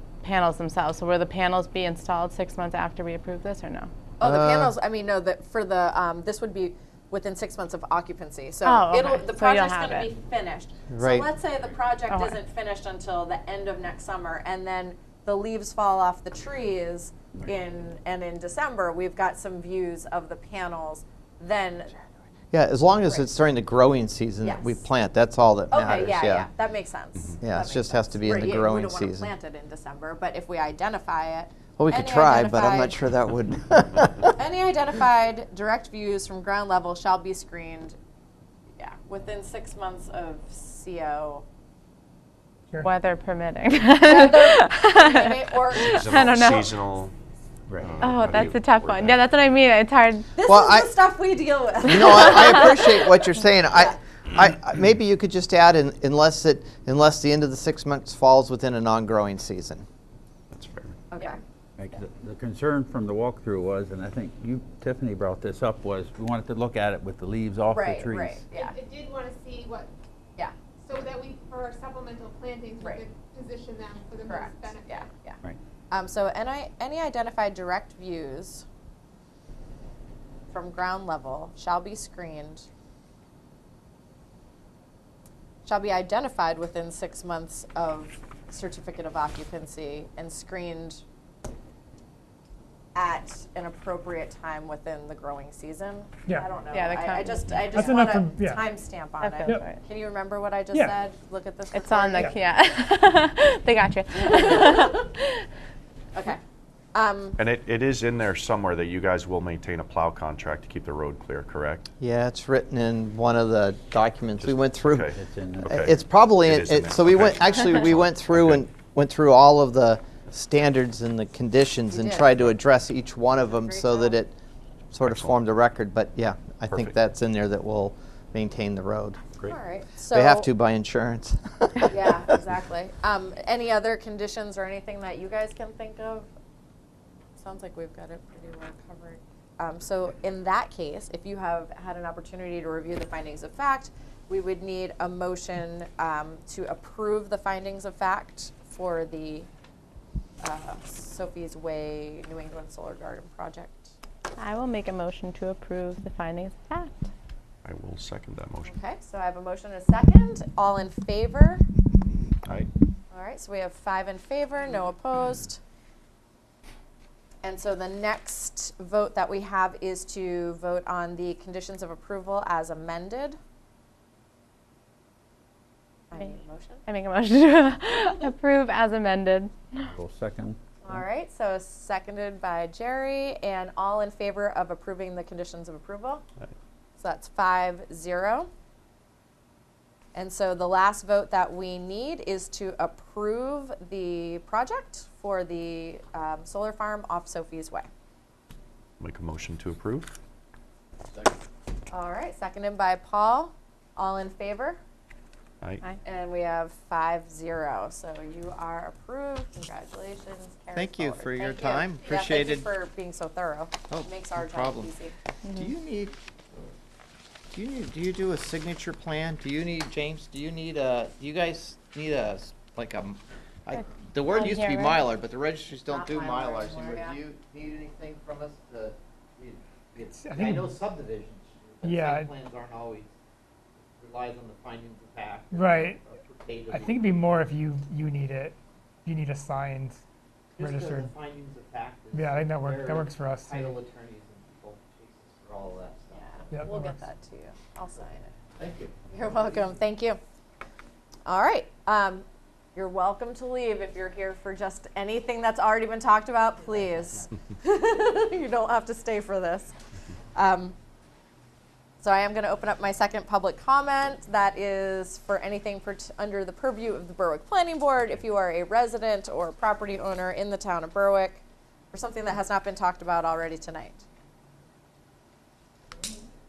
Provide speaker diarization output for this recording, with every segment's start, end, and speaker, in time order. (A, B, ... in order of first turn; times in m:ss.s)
0:00.2-0:03.9 A
0:04.2-0:22.0 B
0:04.2-0:04.7 C
0:08.6-0:10.1 A
0:10.9-0:11.3 C
0:12.1-0:12.4 A
0:22.5-0:26.5 C
0:23.0-0:23.3 B
0:24.4-0:24.8 B
0:25.7-0:33.0 B
0:27.4-0:29.3 C
0:31.8-0:34.3 C
0:34.3-0:38.0 B
0:38.8-0:41.4 B
0:42.8-0:46.7 A
0:44.0-0:46.5 B
0:45.7-0:47.1 D
0:47.7-0:48.0 E
0:47.8-0:49.2 D
0:48.0-0:50.3 A
0:50.4-0:53.0 B
0:50.4-0:50.9 C
0:51.8-0:59.8 C
0:53.7-0:54.0 B
1:00.5-1:01.0 D
1:01.1-1:01.4 B
1:01.8-1:08.4 E
1:07.7-1:08.8 B
1:08.5-1:09.9 F
1:10.4-1:11.0 B
1:10.8-1:15.1 F
1:12.8-1:13.0 B
1:14.2-1:15.4 B
1:15.9-1:18.6 B
1:20.5-1:22.7 B
1:25.6-1:31.0 B
1:32.9-1:42.3 B
1:36.7-1:37.6 A
1:37.6-1:38.6 G
1:39.2-1:39.8 A
1:41.7-1:45.4 A
1:44.2-1:45.0 B
1:46.1-1:46.4 B
1:46.9-1:47.4 B
1:47.4-1:51.8 D
1:52.0-1:55.1 C
1:54.4-1:58.6 D
1:55.1-1:55.9 E
1:55.7-2:04.3 C
1:57.4-1:57.9 B
2:01.9-2:02.5 B
2:03.4-2:04.2 B
2:04.9-2:09.3 C
2:05.0-2:05.4 D
2:06.7-2:06.9 D
2:09.4-2:10.5 B
2:10.1-2:12.2 C
2:11.9-2:16.3 B
2:17.4-2:29.5 B
2:30.4-2:33.9 B
2:34.4-2:37.0 A
2:37.6-2:38.7 D
2:38.6-2:41.6 B
2:43.1-2:45.6 B
2:47.4-2:53.4 B
2:56.1-2:56.8 B
2:56.8-2:59.9 A
2:59.8-3:01.0 E
3:00.8-3:06.2 B
3:07.0-3:08.5 B
3:10.1-3:17.9 B
3:19.0-3:20.2 D
3:21.9-3:24.8 B
3:26.0-3:35.1 B
3:30.7-3:32.7 C
3:33.9-3:34.9 C
3:35.4-3:35.7 A
3:35.5-3:36.1 C
3:37.5-3:53.1 C
3:43.8-3:45.0 A
3:45.9-3:47.2 B
3:50.2-3:50.7 G
3:51.8-3:52.3 G
3:53.8-3:57.1 C
3:55.5-3:56.0 G
3:56.7-4:00.0 G
4:00.6-4:06.7 C
4:00.6-4:01.1 G
4:02.1-4:03.8 G
4:06.1-4:08.3 B
4:06.5-4:07.0 G
4:08.6-4:09.0 C
4:09.1-4:10.2 B
4:11.2-4:12.2 B
4:12.7-4:19.7 B
4:20.3-4:20.8 B
4:22.0-4:34.0 B